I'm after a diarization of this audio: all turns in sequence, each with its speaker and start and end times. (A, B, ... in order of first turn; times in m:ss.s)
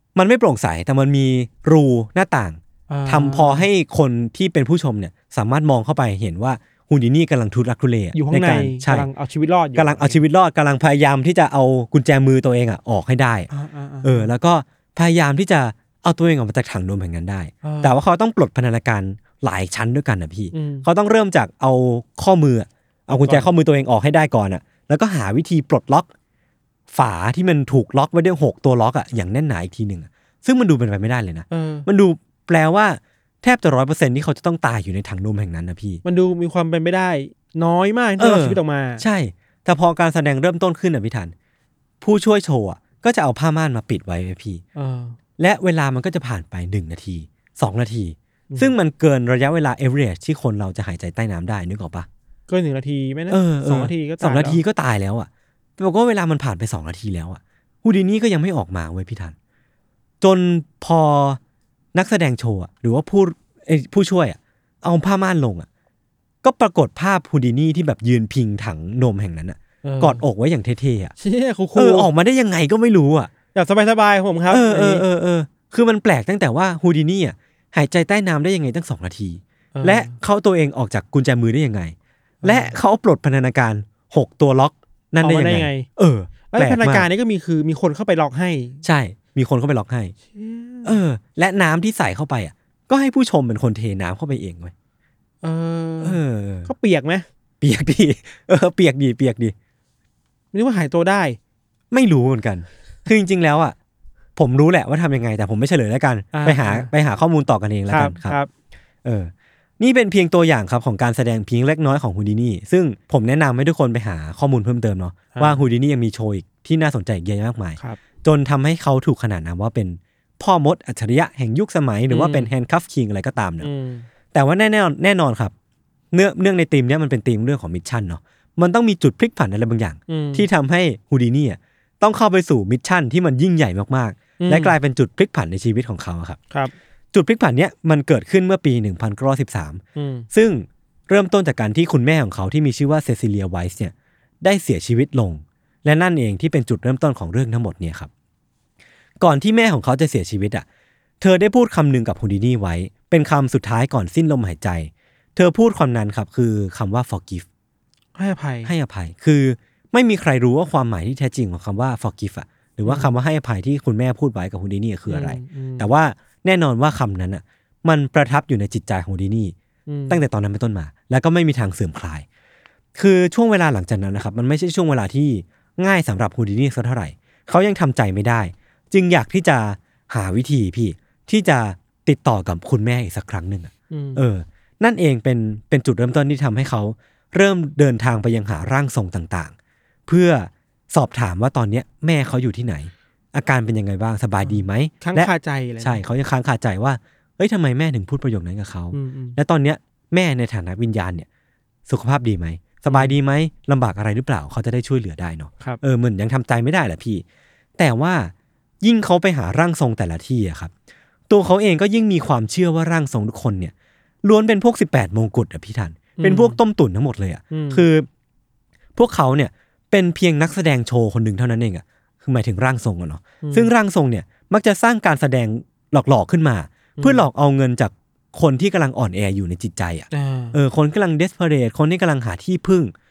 0:00.1-0:09.1 A
0:02.9-0:03.6 B
0:08.1-0:10.2 B
0:09.8-0:13.5 A
0:13.5-0:14.3 B
0:14.0-0:26.1 A
0:17.6-0:18.0 B
0:20.5-0:20.8 B
0:23.1-0:23.5 B
0:26.9-0:36.0 A
0:31.5-0:31.9 B
0:36.0-0:39.0 B
0:38.2-0:41.3 A
0:42.0-0:44.6 A
0:44.8-0:45.2 B
0:45.4-0:52.1 A
0:52.5-0:54.6 B
0:53.3-0:59.3 A
1:00.2-1:01.4 A
1:01.9-1:05.7 A
1:06.4-1:11.1 A
1:09.8-1:10.2 B
1:11.2-1:12.1 B
1:11.7-1:13.3 A
1:13.5-1:15.0 B
1:14.5-1:27.1 A
1:19.7-1:20.1 B
1:22.4-1:22.7 B
1:25.2-1:25.9 B
1:26.5-1:28.8 B
1:28.8-1:30.1 A
1:30.3-1:31.0 B
1:30.8-1:34.7 A
1:35.4-1:37.2 B
1:36.0-1:36.7 A
1:37.6-1:39.5 A
1:40.5-1:41.4 B
1:41.9-1:43.7 A
1:44.4-1:48.4 A
1:46.3-1:46.9 B
1:47.9-1:48.5 B
1:49.0-2:03.7 A
1:55.3-1:55.6 B
2:02.1-2:02.5 B
2:03.6-2:04.1 B
2:04.3-2:05.5 A
2:06.1-2:16.4 A
2:10.1-2:10.4 B
2:14.4-2:14.8 B
2:17.1-2:28.1 A
2:20.0-2:20.3 B
2:29.2-2:30.6 A
2:31.2-2:37.4 A
2:38.2-2:38.7 B
2:38.6-2:49.5 A
2:42.8-2:43.1 B
2:45.1-2:45.9 B
2:49.9-2:50.2 B
2:50.1-2:52.2 A
2:52.9-3:09.5 A
3:03.9-3:04.2 B
3:10.1-3:21.3 A
3:14.4-3:16.0 B
3:18.9-3:19.4 B
3:21.9-3:27.2 A
3:22.9-3:23.2 B
3:27.8-3:30.7 A
3:31.3-3:38.1 A
3:36.2-3:36.6 B
3:37.5-3:37.8 B
3:39.0-3:52.9 A
3:43.4-3:43.7 B
3:47.0-3:47.3 B
3:50.1-3:50.6 B